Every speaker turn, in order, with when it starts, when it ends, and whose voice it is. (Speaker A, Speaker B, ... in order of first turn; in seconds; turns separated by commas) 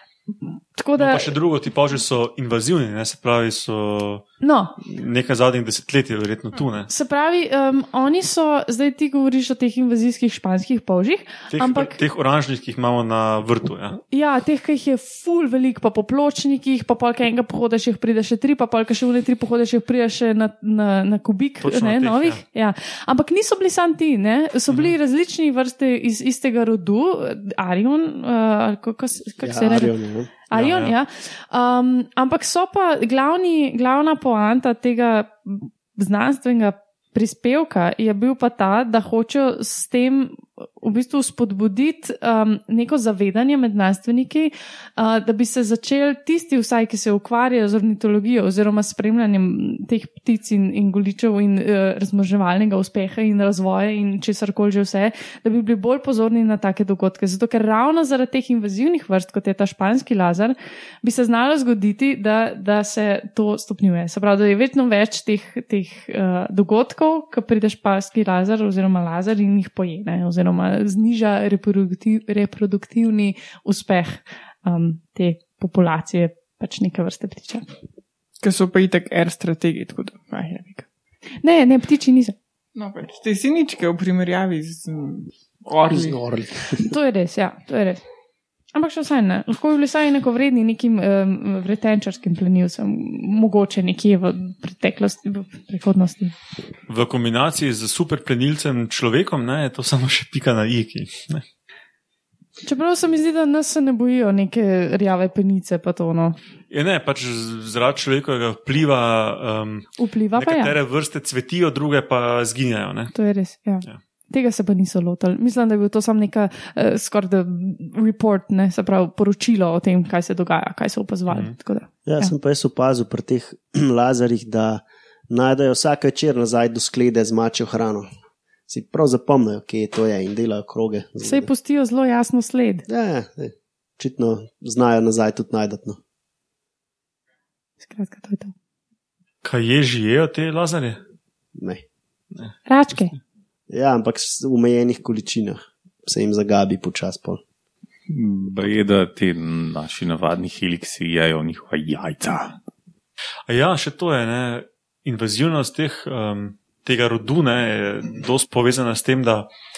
Speaker A: 0.8-1.3, Speaker B: 0.9-4.2, Speaker A: 4.4-4.8, Speaker B: 4.8-6.9, Speaker A: 6.9-12.0, Speaker B: 11.5-14.0, Speaker A: 14.1-29.9, Speaker B: 21.6-22.4, Speaker C: 29.4-30.3, Speaker A: 30.5-77.6, Speaker B: 30.5-30.9, Speaker D: 78.4-80.8, Speaker A: 81.4-82.3, Speaker D: 82.7-86.2, Speaker C: 85.9-86.9, Speaker A: 86.8-88.0, Speaker A: 88.7-96.3, Speaker B: 96.9-101.4, Speaker A: 102.6-106.4, Speaker B: 106.7-113.1, Speaker A: 110.0-110.7, Speaker A: 113.1-122.3, Speaker B: 121.3-121.5, Speaker C: 122.0-128.1, Speaker C: 128.7-131.5, Speaker A: 131.2-132.8, Speaker C: 132.9-136.0, Speaker A: 137.8-138.5, Speaker B: 139.4-141.0, Speaker C: 141.5-141.8, Speaker B: 142.3-143.0, Speaker A: 142.7-143.1, Speaker C: 143.7-147.4, Speaker E: 148.1-152.5, Speaker B: 153.5-159.5